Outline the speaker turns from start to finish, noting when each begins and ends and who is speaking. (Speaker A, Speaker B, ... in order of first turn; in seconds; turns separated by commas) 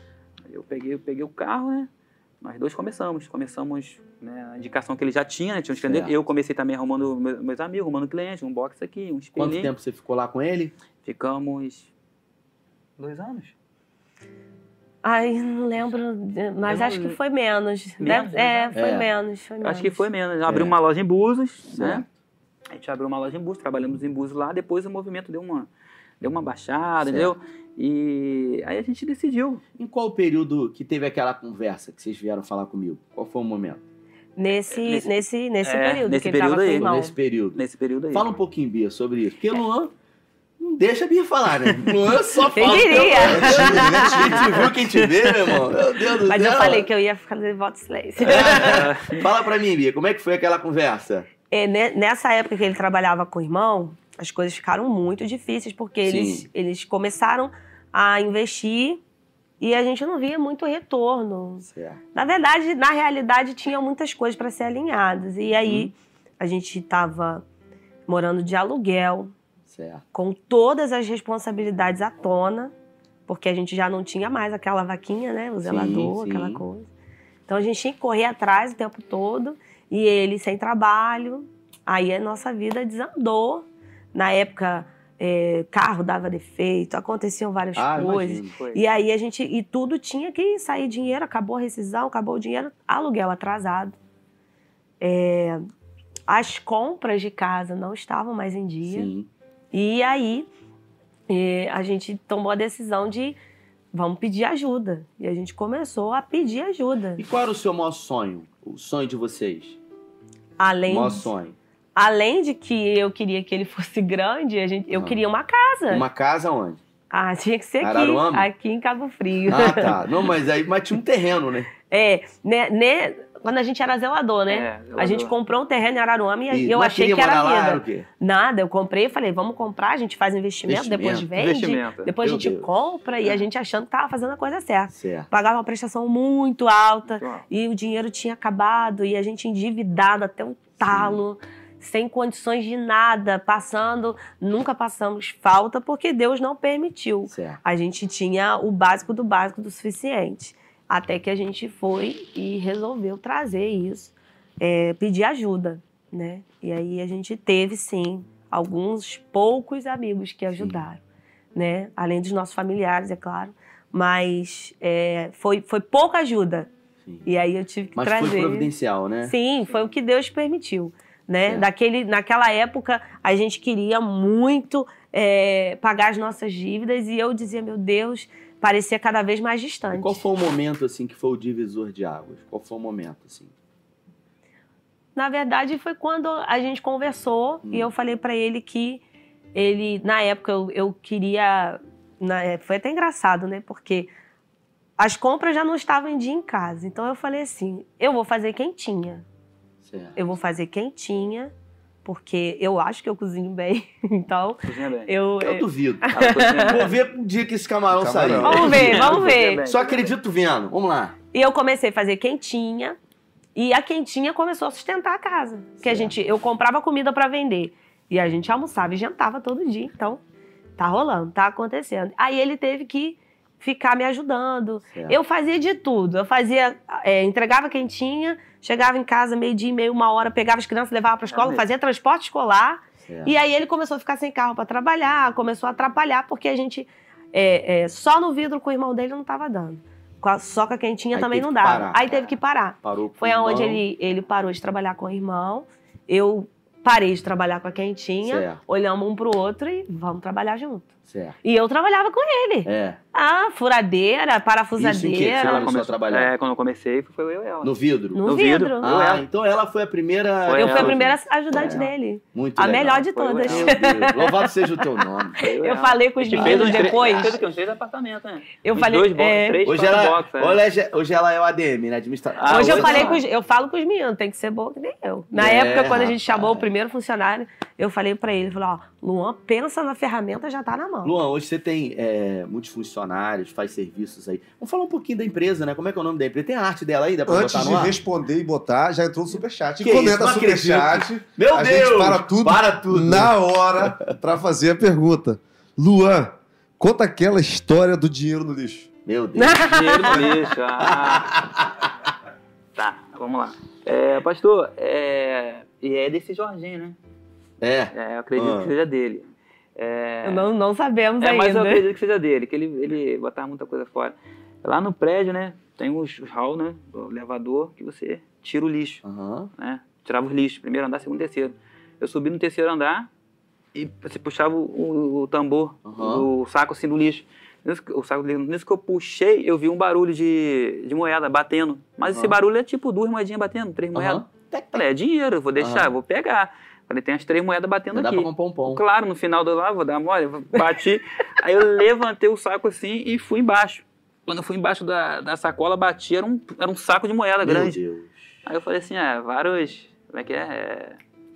Speaker A: 0.5-1.9, Speaker A: 2.4-9.7, Speaker B: 5.8-6.1, Speaker B: 9.4-10.7, Speaker A: 11.0-11.9, Speaker A: 13.0-13.5, Speaker C: 15.0-20.1, Speaker A: 16.6-17.2, Speaker A: 18.0-18.8, Speaker B: 18.7-19.1, Speaker A: 19.6-22.1, Speaker B: 20.5-20.7, Speaker B: 21.7-22.1, Speaker A: 22.7-25.7, Speaker A: 26.2-29.6, Speaker B: 27.0-27.3, Speaker B: 29.8-33.8, Speaker C: 34.4-37.1, Speaker A: 34.7-36.9, Speaker B: 36.8-39.9, Speaker A: 37.6-38.3, Speaker B: 40.6-46.9, Speaker C: 42.5-44.7, Speaker D: 43.2-44.6, Speaker A: 45.0-45.6, Speaker C: 46.2-48.9, Speaker B: 48.2-51.3, Speaker A: 48.3-49.2, Speaker C: 51.5-59.0, Speaker B: 56.0-56.5, Speaker C: 59.6-67.5, Speaker B: 61.6-62.0, Speaker B: 65.6-65.9, Speaker C: 68.1-69.3, Speaker B: 69.7-70.0, Speaker C: 70.1-72.7, Speaker C: 73.3-76.9, Speaker B: 75.6-76.6, Speaker C: 77.5-94.0, Speaker B: 87.8-88.5, Speaker A: 88.0-88.8, Speaker C: 95.0-95.6, Speaker C: 96.3-99.1, Speaker B: 98.8-99.3, Speaker C: 99.7-100.5, Speaker C: 101.3-103.4, Speaker C: 103.9-107.2, Speaker B: 107.2-109.8, Speaker C: 110.6-111.3, Speaker B: 110.9-111.6, Speaker C: 112.0-116.0, Speaker B: 114.9-115.2, Speaker B: 115.9-116.8, Speaker C: 117.1-120.0, Speaker B: 117.8-118.5, Speaker B: 119.5-121.7, Speaker C: 121.9-161.0, Speaker A: 124.5-125.3, Speaker B: 126.5-128.1, Speaker B: 130.7-131.3, Speaker A: 131.3-132.1, Speaker B: 132.2-132.7, Speaker B: 134.9-135.3, Speaker A: 137.1-137.4, Speaker B: 140.8-141.2, Speaker B: 147.3-147.6, Speaker B: 160.6-160.9, Speaker C: 161.5-166.7, Speaker C: 167.3-168.7, Speaker B: 168.0-169.3, Speaker C: 169.2-180.2, Speaker B: 179.9-183.5, Speaker C: 185.2-189.0, Speaker B: 187.7-187.9, Speaker C: 189.6-194.1, Speaker C: 195.0-199.2, Speaker B: 199.8-200.2, Speaker C: 200.2-201.5, Speaker C: 202.1-206.9, Speaker A: 204.7-205.1, Speaker B: 205.4-211.2, Speaker A: 206.1-207.0, Speaker D: 207.9-209.1, Speaker C: 208.4-209.6, Speaker A: 208.5-210.1, Speaker C: 211.3-213.0, Speaker C: 213.6-220.2, Speaker B: 215.8-216.2, Speaker C: 220.8-250.9, Speaker A: 231.3-231.7, Speaker B: 233.1-233.3, Speaker B: 241.1-243.8, Speaker B: 248.2-248.6, Speaker B: 251.1-251.4, Speaker C: 251.4-255.7, Speaker B: 252.7-253.0, Speaker B: 254.8-256.3, Speaker A: 255.4-259.2, Speaker B: 257.6-265.4, Speaker C: 258.1-258.9, Speaker A: 260.5-261.0, Speaker C: 260.5-264.6, Speaker A: 261.5-261.9, Speaker A: 263.1-263.8, Speaker A: 265.4-270.6, Speaker C: 265.4-267.4, Speaker B: 266.3-267.4, Speaker C: 268.6-269.6, Speaker B: 269.6-273.2, Speaker A: 272.4-273.2, Speaker C: 272.5-281.1, Speaker B: 275.3-276.7, Speaker B: 281.0-287.9, Speaker D: 287.3-298.9, Speaker B: 289.8-294.1, Speaker B: 299.1-301.9, Speaker C: 299.4-300.4, Speaker A: 299.6-301.3, Speaker A: 302.8-307.0, Speaker B: 307.6-308.7, Speaker A: 307.9-310.5, Speaker C: 310.2-311.9, Speaker A: 311.2-319.0, Speaker B: 319.0-319.5, Speaker A: 319.6-323.1, Speaker A: 323.8-347.8, Speaker B: 325.9-326.3, Speaker B: 332.1-332.4, Speaker B: 333.9-334.8, Speaker B: 335.6-335.9, Speaker B: 337.9-338.8, Speaker B: 347.4-348.2, Speaker A: 348.5-351.0